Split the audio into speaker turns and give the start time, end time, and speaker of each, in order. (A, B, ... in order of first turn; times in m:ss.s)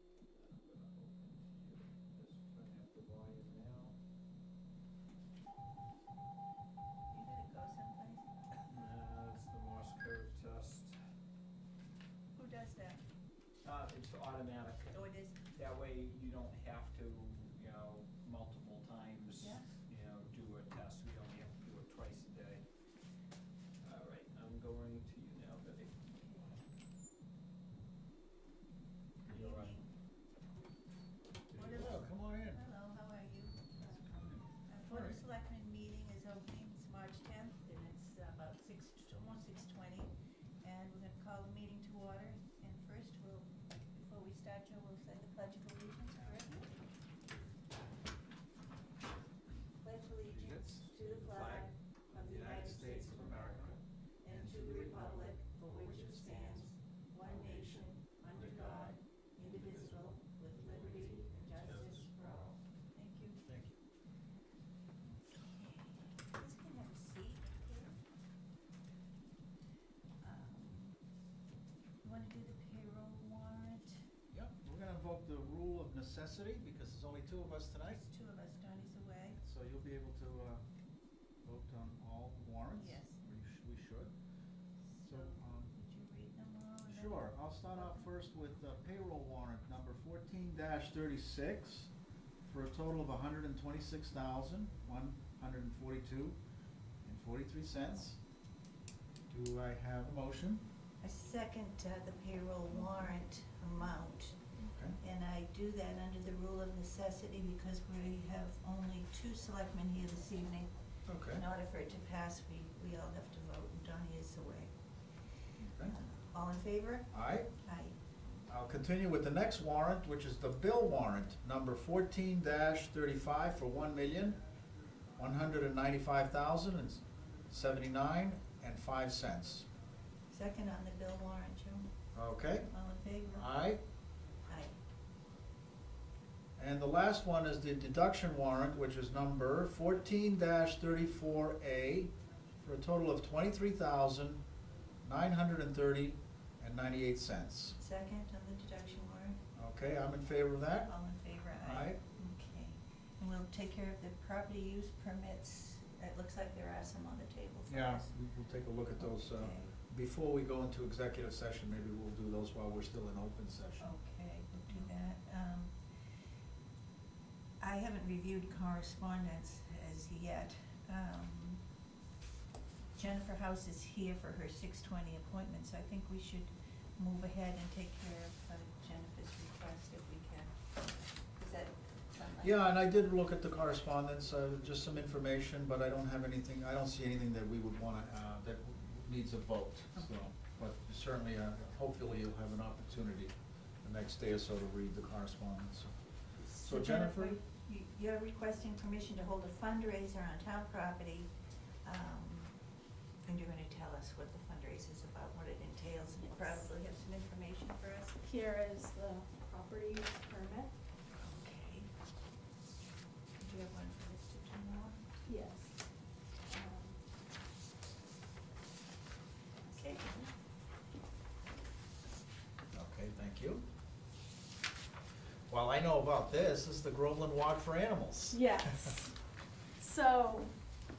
0:00.3-0:04.0 A
0:07.1-0:08.5 B
0:08.7-0:11.0 A
0:12.3-0:13.0 B
0:13.6-0:22.6 A
0:14.9-0:15.4 B
0:19.4-0:19.7 B
0:23.8-0:26.1 A
0:26.1-0:26.5 B
0:29.2-0:29.9 B
0:29.3-0:29.8 A
0:31.5-0:32.1 A
0:31.6-0:31.9 B
0:31.6-0:32.6 C
0:32.5-0:46.7 B
0:34.8-0:35.2 C
0:49.8-0:53.5 B
0:50.3-0:50.9 C
0:51.0-0:51.4 A
0:52.2-0:53.8 C
0:52.6-0:53.8 A
0:54.2-1:03.4 B
0:54.3-0:56.6 C
1:00.7-1:01.9 A
1:03.4-1:03.7 C
1:05.0-1:08.0 B
1:10.2-1:11.0 B
1:12.0-1:14.0 B
1:14.3-1:18.0 C
1:17.9-1:19.4 B
1:19.4-1:20.6 C
1:21.4-1:24.1 C
1:22.8-1:23.2 B
1:24.9-1:28.1 B
1:25.0-1:25.7 C
1:26.9-1:31.9 C
1:32.4-1:36.4 C
1:37.0-1:38.2 C
1:39.3-1:40.6 C
1:41.0-1:44.4 B
1:44.6-1:45.0 C
1:45.0-1:50.7 B
1:51.1-1:51.4 C
1:51.3-1:54.7 B
1:55.6-1:56.0 C
1:55.8-1:57.1 B
1:57.1-1:57.5 C
1:57.6-1:58.0 B
1:58.5-2:04.4 C
2:05.2-2:09.7 C
2:10.3-2:11.9 B
2:12.1-2:12.7 C
2:12.7-2:13.4 B
2:13.3-2:13.8 C
2:14.5-2:14.8 B
2:16.6-2:24.4 C
2:25.0-2:27.8 C
2:27.7-2:29.4 B
2:29.5-2:30.9 C
2:30.8-2:38.1 B
2:31.6-2:32.0 C
2:37.7-2:43.9 C
2:39.0-2:39.7 B
2:43.8-2:45.7 B
2:47.6-2:51.6 B
2:52.9-3:00.5 B
3:01.4-3:02.6 B
3:02.4-3:15.9 C
3:16.4-3:21.3 B
3:16.6-3:17.4 C
3:21.8-3:22.5 B
3:23.2-3:28.2 B
3:28.2-3:30.7 D
3:31.1-3:31.9 B
3:33.4-3:35.1 B
3:35.2-3:35.7 D
3:36.5-3:36.9 D
3:39.6-3:40.3 B
3:42.7-3:43.6 C
3:45.5-3:48.4 C
3:48.3-3:49.1 D
3:49.8-3:50.5 D